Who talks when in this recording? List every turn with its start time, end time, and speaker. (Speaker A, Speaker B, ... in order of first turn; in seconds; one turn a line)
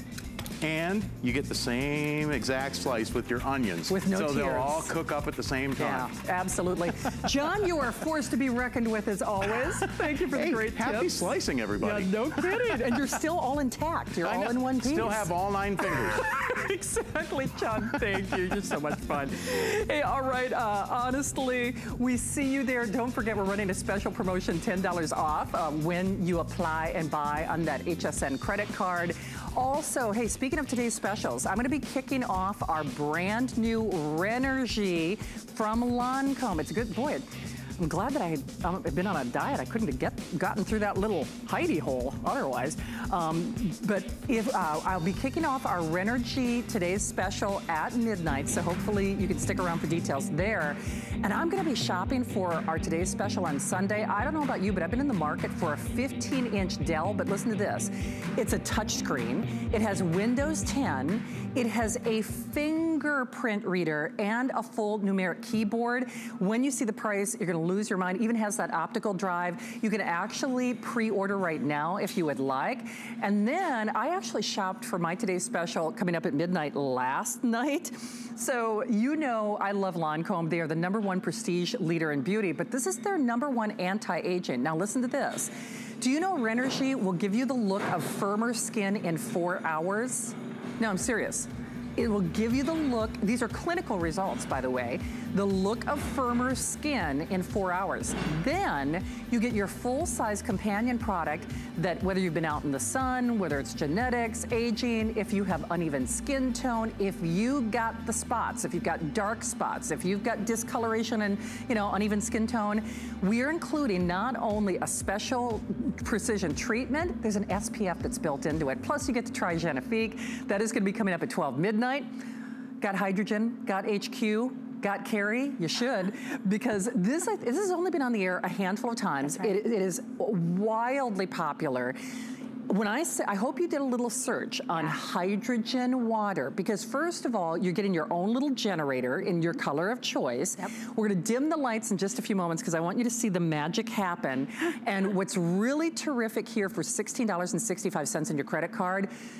Speaker A: 0.6-6.1
Speaker B: 3.9-4.9
Speaker B: 5.8-11.2
Speaker A: 9.5-13.2
Speaker B: 11.8-122.1
Speaker A: 14.2-16.3
Speaker A: 17.9-18.2
Speaker B: 122.8-132.0
Speaker B: 132.7-149.1